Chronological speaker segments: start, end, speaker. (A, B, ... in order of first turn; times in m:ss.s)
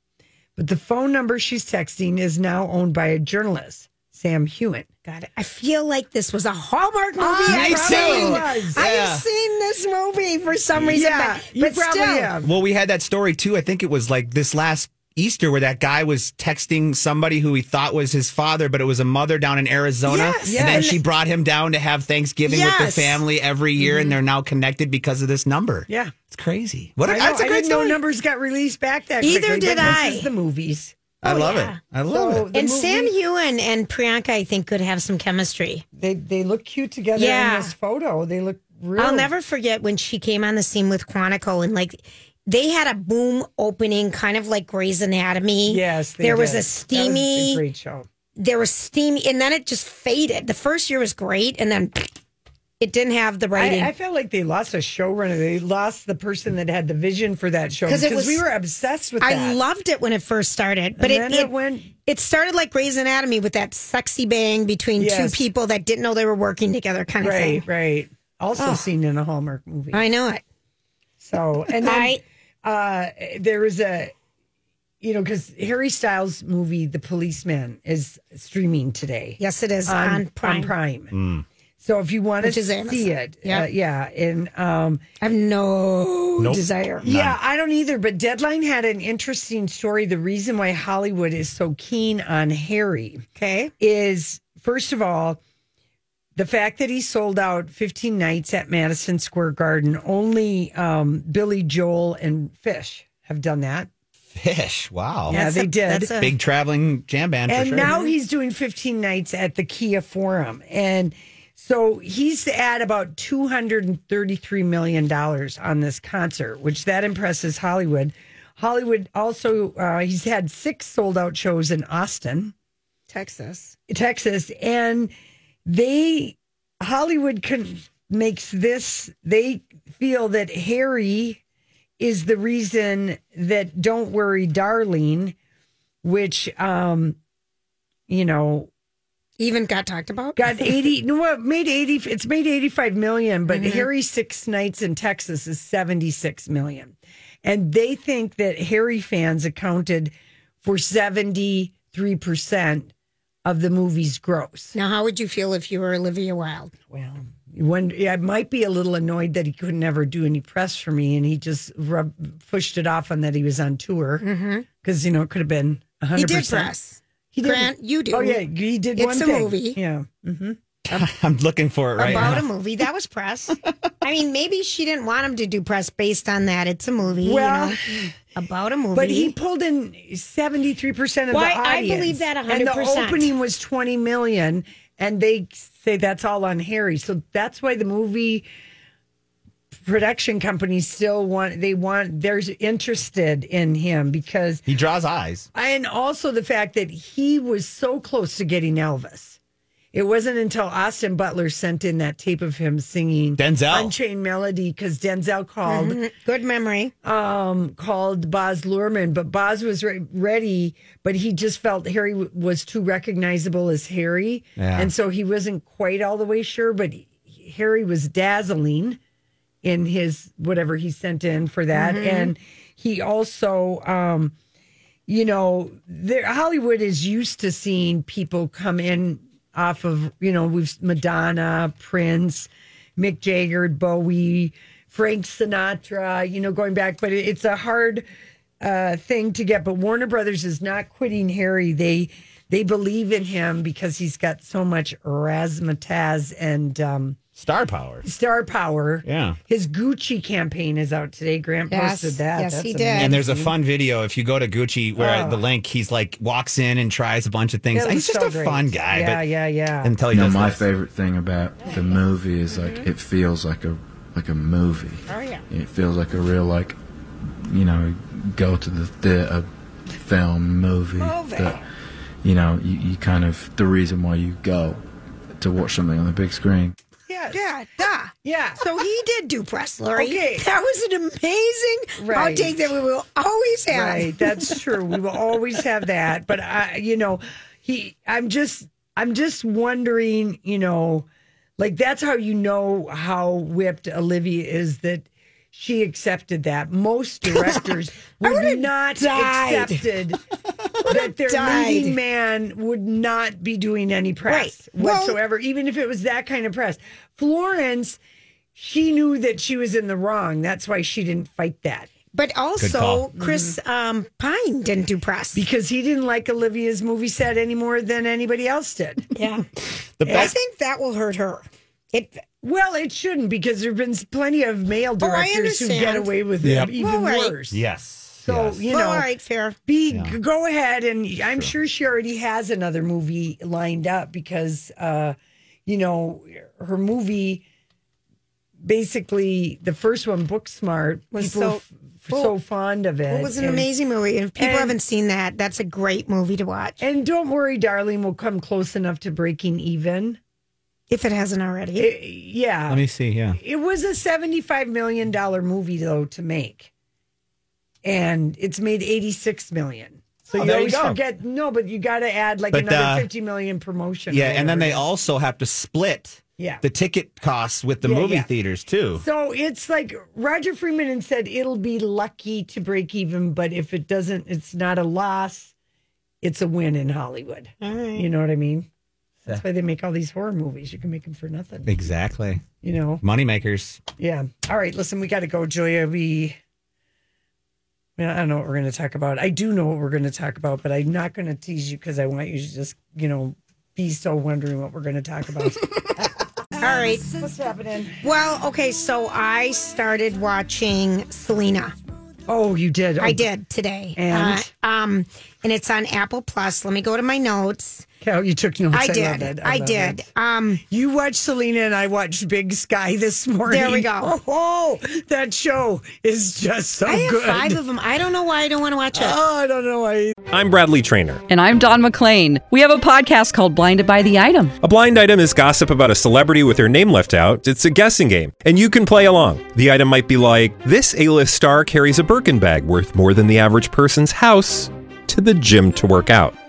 0:00.6-0:04.9 A
0:05.0-0:12.3 B
0:07.2-0:08.8 A
0:07.5-0:09.2 C
0:10.9-0:12.5 A
0:12.4-0:27.6 C
0:20.1-0:20.9 A
0:20.1-0:21.0 B
0:22.4-0:23.2 B
0:23.8-0:24.1 A
0:25.9-0:26.1 A
0:27.0-0:31.0 A
0:27.1-0:28.0 B
0:29.2-0:30.3 B
0:31.2-0:32.5 C
0:31.2-0:31.8 B
0:32.1-0:33.1 A
0:32.5-0:35.8 B
0:36.0-0:39.3 A
0:37.1-0:37.7 B
0:39.0-0:47.6 B
0:45.7-0:48.0 A
0:48.4-0:52.1 B
0:52.8-0:53.9 B
0:53.5-0:59.6 A
0:57.9-0:58.4 B
0:59.2-1:01.5 B
1:01.0-1:01.9 A
1:02.0-1:07.6 B
1:05.0-1:05.5 A
1:07.2-1:10.0 A
1:08.6-1:08.8 B
1:09.9-1:10.4 B
1:11.2-1:14.1 A
1:11.8-1:12.2 B
1:15.0-1:21.1 A
1:19.4-1:20.7 B
1:21.1-1:21.4 C
1:21.8-1:25.0 A
1:22.4-1:23.7 B
1:25.2-1:27.0 B
1:26.4-1:27.4 C
1:27.0-1:33.2 A
1:33.4-1:33.7 B
1:33.8-1:35.4 A
1:36.4-1:43.9 A
1:44.3-1:45.4 C
1:45.3-1:46.1 A
1:45.3-1:46.3 B
1:46.2-1:47.9 C
1:47.5-2:02.5 A
1:47.8-1:48.1 B
2:03.1-2:03.7 B
2:03.9-2:05.1 A
2:05.6-2:11.4 A
2:12.0-2:15.3 A
2:16.0-2:17.2 A
2:18.1-2:18.7 A
2:19.4-2:20.8 B
2:20.4-2:32.9 A
2:23.5-2:23.9 B
2:33.4-2:34.7 A
2:34.7-2:36.7 B
2:36.9-2:44.2 A
2:44.2-2:44.6 B
2:44.8-2:46.7 A
2:46.1-2:48.4 B
2:47.3-2:50.6 A
2:49.0-2:49.8 B
2:50.9-2:52.4 C
2:52.0-2:57.8 B
2:52.0-2:52.4 A
2:57.2-2:58.1 A
2:58.3-2:59.3 B
2:58.9-3:08.5 A
3:01.3-3:03.3 B
3:09.8-3:14.6 A
3:14.7-3:15.5 C
3:15.5-3:19.4 A
3:19.9-3:26.0 A
3:23.4-3:23.9 C
3:25.6-3:26.9 B
3:27.0-3:39.0 A
3:34.6-3:34.9 C
3:39.6-3:44.3 A
3:41.7-3:42.3 B
3:45.1-3:58.0 A
3:58.6-4:07.2 A
4:07.4-4:08.0 C
4:08.0-4:13.5 A
4:09.0-4:09.4 C
4:11.7-4:13.2 B
4:13.0-4:19.2 C
4:15.0-4:15.4 A
4:17.7-4:20.0 A
4:19.8-4:20.6 C
4:20.1-4:26.8 D
4:22.5-4:22.9 B
4:25.1-4:25.4 B
4:27.4-4:31.6 D
4:31.0-4:31.6 B
4:32.2-4:34.8 D
4:35.4-4:36.7 D
4:37.1-4:37.5 A
4:37.3-4:44.5 B
4:38.2-4:38.6 A
4:39.9-4:40.4 A
4:42.0-4:42.6 A
4:43.7-4:51.1 A
4:51.6-5:00.2 A
4:57.3-4:59.8 B
5:00.8-5:02.0 B
5:00.8-5:08.0 A
5:04.3-5:05.2 B
5:08.5-5:11.9 A
5:12.1-5:15.4 B
5:12.6-5:13.0 C
5:13.2-5:13.6 A
5:15.3-5:19.1 A
5:19.1-5:19.4 B
5:20.0-5:20.3 C
5:20.0-5:20.3 A
5:20.1-5:22.2 B
5:22.4-5:27.6 A
5:25.0-5:26.1 B
5:26.4-5:26.7 C
5:26.6-5:27.4 B
5:27.5-5:28.6 C
5:28.2-5:29.1 A
5:28.7-5:29.6 B
5:29.7-5:37.4 A
5:29.9-5:30.1 C
5:38.6-5:43.7 A
5:41.1-5:42.3 B
5:43.1-5:46.8 B
5:44.4-5:44.8 A
5:46.8-5:50.2 A
5:50.9-5:51.9 B
5:51.8-5:52.8 A
5:52.7-5:53.4 C
5:53.3-5:56.7 A
5:57.8-6:04.9 A
6:00.3-6:01.0 C
6:02.5-6:03.1 C
6:04.1-6:09.0 C
6:06.4-6:06.6 A
6:07.8-6:08.3 A
6:09.0-6:15.5 A
6:16.2-6:18.7 A
6:17.6-6:18.1 B
6:19.2-6:21.7 A
6:21.6-6:22.5 C
6:22.6-6:23.0 A
6:23.0-6:23.8 C
6:24.0-6:26.4 A
6:28.0-6:38.0 A
6:36.6-6:37.0 B
6:38.0-6:41.7 B
6:42.3-6:43.2 A
6:43.0-6:47.8 B
6:44.0-6:44.5 A
6:48.0-6:50.0 A
6:48.7-6:50.6 B
6:50.7-6:57.6 A
6:53.5-6:54.2 B
6:56.8-6:59.2 B
6:58.9-7:00.2 A
7:00.3-7:01.2 E
7:01.3-7:04.5 F
7:04.6-7:16.3 E